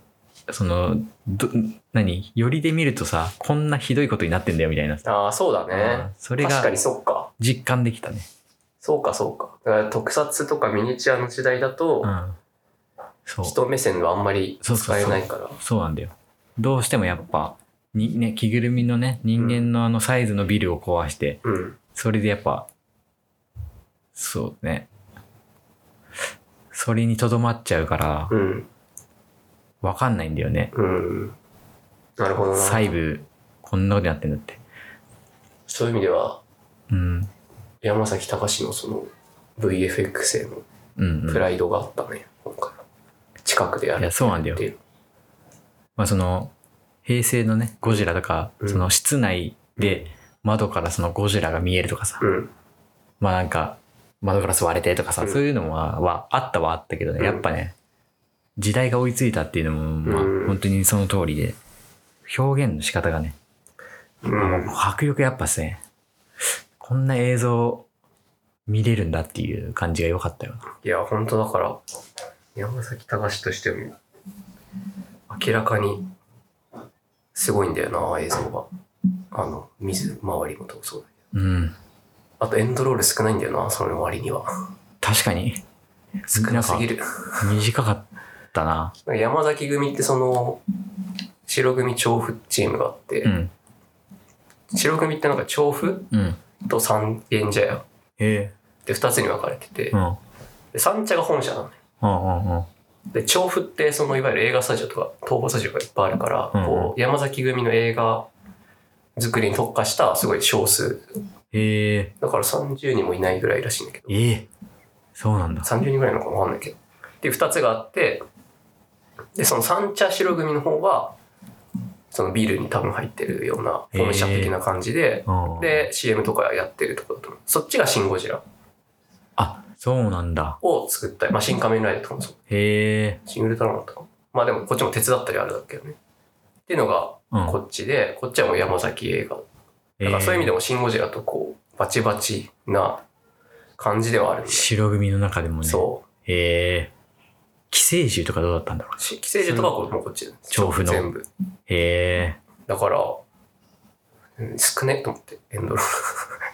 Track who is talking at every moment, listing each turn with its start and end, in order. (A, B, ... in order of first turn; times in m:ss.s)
0:00.5-0:05.0 A
0:05.0-0:07.3 B
0:05.7-0:06.7 A
0:07.4-0:08.3 A
0:08.8-0:12.1 B
0:12.0-0:12.4 A
0:13.2-0:13.5 A
0:13.4-0:15.6 B
0:14.6-0:21.4 A
0:19.4-0:19.7 B
0:21.4-0:21.8 B
0:21.9-0:22.7 A
0:24.1-0:24.9 A
0:26.7-0:28.3 A
0:28.3-0:28.7 B
0:29.8-0:30.7 A
0:30.7-0:31.4 B
0:32.2-0:32.9 B
0:32.5-0:34.6 A
0:35.7-0:36.4 B
0:36.9-0:37.3 A
0:37.8-0:40.6 B
0:41.0-0:41.5 A
0:41.3-0:42.8 B
0:43.4-0:44.8 B
0:44.0-0:44.6 A
0:46.0-0:46.5 A
0:47.0-0:52.2 A
0:48.6-0:48.9 B
0:49.8-0:50.0 B
0:52.2-0:52.5 B
0:53.2-0:57.7 A
0:57.2-0:57.4 B
0:58.6-1:01.6 A
1:00.0-1:00.6 B
1:02.2-1:03.4 A
1:04.2-1:04.7 B
1:04.4-1:05.8 A
1:06.8-1:07.9 A
1:08.7-1:10.6 A
1:10.8-1:11.8 B
1:12.5-1:14.0 B
1:15.3-1:16.1 B
1:17.3-1:18.7 B
1:19.3-1:21.1 B
1:21.3-1:21.8 A
1:22.4-1:24.6 B
1:25.0-1:25.6 A
1:26.3-1:27.5 B
1:26.3-1:26.9 A
1:27.4-1:28.9 A
1:29.0-1:30.6 B
1:31.4-1:33.3 B
1:33.2-1:33.5 A
1:34.7-1:36.1 B
1:36.1-1:36.4 A
1:36.6-1:37.8 B
1:38.2-1:38.5 A
1:38.8-1:40.0 B
1:39.9-1:40.2 A
1:40.7-1:41.8 B
1:42.0-1:42.7 A
1:43.1-1:48.3 B
1:46.5-1:46.9 A
1:49.2-1:51.1 B
1:51.5-1:52.1 A
1:52.2-1:54.2 B
1:54.1-1:54.5 A
1:55.2-1:55.7 A
1:55.6-1:58.2 B
1:59.4-2:01.2 B
2:02.1-2:08.4 B
2:03.9-2:04.6 A
2:05.3-2:05.9 A
2:09.4-2:10.6 A
2:10.6-2:12.4 B
2:12.5-2:13.2 A
2:13.2-2:16.0 B
2:16.7-2:19.4 B
2:17.3-2:17.6 A
2:20.0-2:20.5 A
2:20.0-2:23.0 B
2:23.8-2:24.7 B
2:24.5-2:26.9 A
2:25.6-2:26.0 B
2:27.7-2:29.7 A
2:29.0-2:31.2 B
2:30.5-2:31.1 A
2:31.7-2:32.4 A
2:32.7-2:33.2 B
2:34.4-2:36.3 B